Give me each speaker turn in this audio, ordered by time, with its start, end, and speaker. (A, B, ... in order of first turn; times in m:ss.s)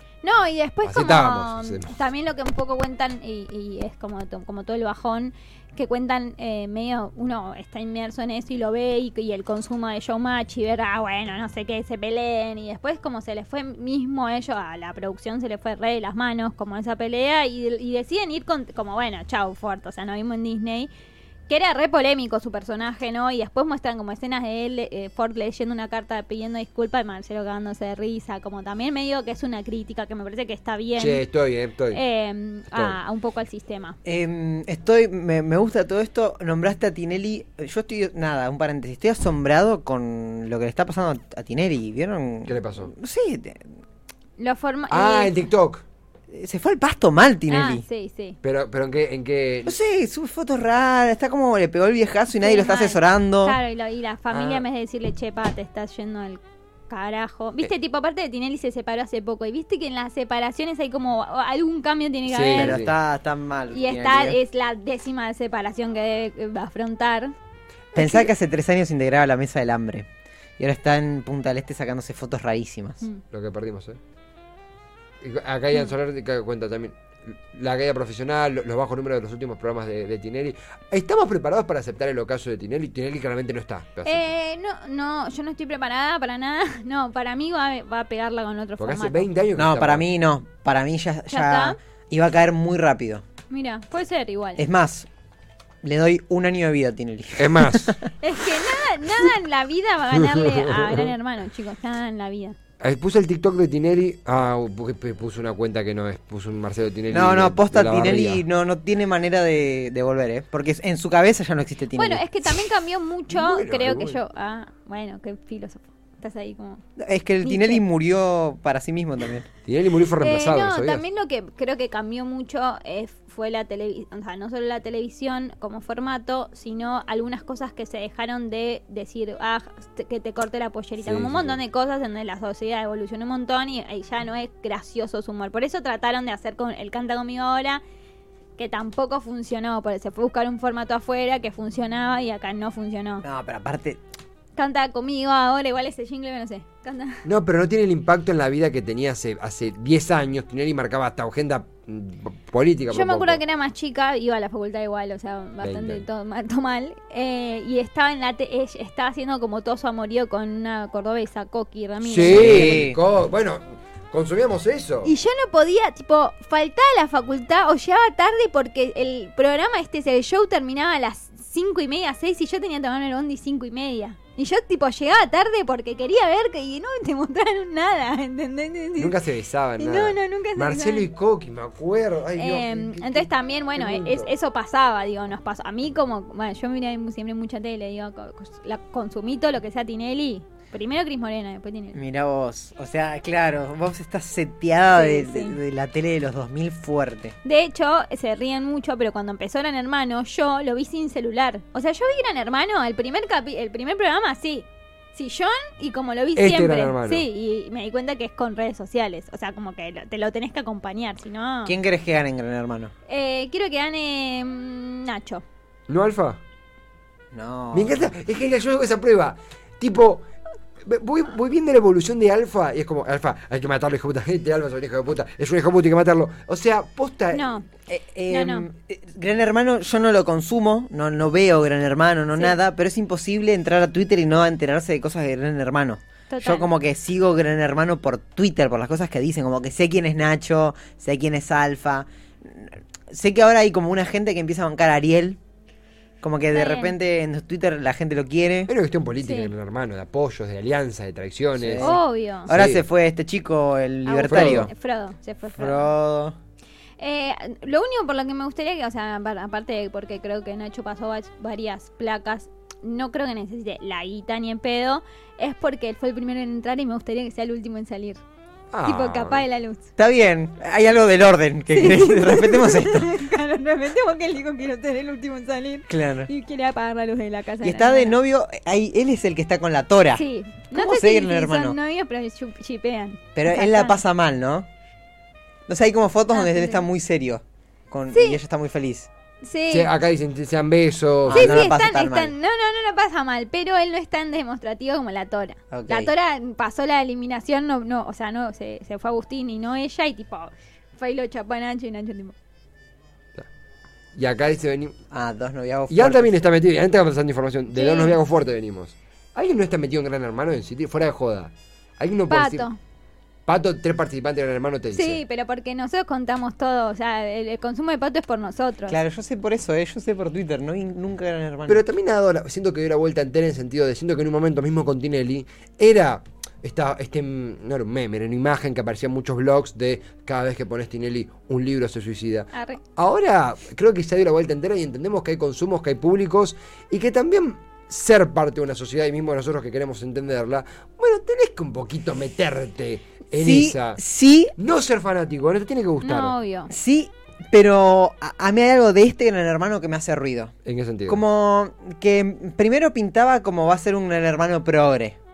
0:00.2-0:20.9 A
0:00.8-0:01.9 B
0:21.5-0:31.2 A
0:31.0-0:32.0 B
0:31.9-0:34.0 A
0:32.7-0:33.0 B
0:34.0-0:43.6 C
0:42.5-0:42.9 B
0:44.4-0:45.5 A
0:44.9-0:45.8 B
0:46.3-0:47.8 C
0:47.5-0:48.4 A
0:48.4-0:49.8 B
0:49.6-0:53.6 C
0:52.3-1:02.7 A
0:54.3-0:54.6 B
1:02.3-1:02.9 B
1:02.5-1:04.4 C
1:03.7-1:07.3 A
1:07.9-1:10.1 C
1:07.9-1:08.3 A
1:10.6-1:13.0 C
1:13.3-1:14.0 B
1:15.2-1:24.3 B
1:24.0-1:29.3 A
1:28.8-1:30.0 B
1:29.6-1:33.2 C
1:31.3-1:31.8 A
1:33.5-1:34.6 A
1:34.6-1:35.1 C
1:35.8-1:38.0 C
1:37.4-1:38.0 B
1:38.2-1:42.6 A
1:40.1-1:41.1 B
1:42.8-1:48.4 B
1:47.1-1:52.2 C
1:52.0-1:56.8 A
1:53.3-1:54.2 B
1:57.0-1:59.5 C
1:57.4-1:57.8 A
1:59.6-2:01.0 B
2:00.2-2:17.8 A
2:11.0-2:11.6 B
2:18.6-2:23.2 A
2:23.2-2:24.0 C
2:24.6-2:27.2 A
2:27.2-2:33.4 B
2:32.9-2:42.7 A
2:35.6-2:36.0 B
2:42.0-2:45.1 B
2:42.3-2:43.0 C
2:45.0-2:59.1 A
2:59.0-3:04.3 B
2:59.8-3:01.1 A
3:02.4-3:12.0 A
3:11.9-3:17.3 C
3:14.9-3:15.6 A
3:17.4-3:31.8 A
3:26.4-3:27.2 B
3:31.6-3:32.9 C
3:33.1-3:35.4 A
3:35.9-3:36.4 B
3:37.3-3:38.1 C
3:37.7-3:40.2 B
3:40.8-3:47.4 B
3:47.3-3:47.7 A
3:47.9-4:05.4 C
3:48.3-3:48.6 A
3:56.3-3:56.7 A
4:06.2-4:08.7 C
4:06.5-4:07.0 A
4:08.7-4:12.8 B
4:09.2-4:09.5 A
4:11.6-4:14.7 C
4:11.8-4:12.5 A
4:14.0-4:15.9 A
4:14.3-4:14.7 B
4:15.5-4:16.4 C
4:17.0-4:28.2 A
4:28.7-4:29.4 B
4:28.8-4:29.9 A
4:30.0-4:33.2 C
4:31.7-4:38.2 A
4:35.9-4:36.3 C
4:37.6-4:41.8 C
4:40.1-4:44.0 A
4:43.3-4:44.7 C
4:45.7-4:49.1 C
4:46.3-4:46.8 A
4:48.1-4:48.4 A
4:49.4-4:49.9 A
4:49.7-4:51.6 B
4:51.2-4:52.3 C
4:51.3-5:02.3 A
4:55.7-4:56.1 C
5:04.1-5:05.0 B
5:05.1-5:06.4 C
5:05.9-5:12.6 B
5:07.7-5:08.2 A
5:12.3-5:12.8 A
5:13.5-5:15.2 B
5:14.9-5:19.0 A
5:18.9-5:21.8 C
5:21.7-5:44.0 B
5:32.5-5:32.8 A
5:43.3-5:44.5 C
5:44.6-5:46.3 B
5:46.0-5:46.7 A
5:46.7-5:50.5 C
5:50.6-5:51.2 B
5:51.1-5:55.2 C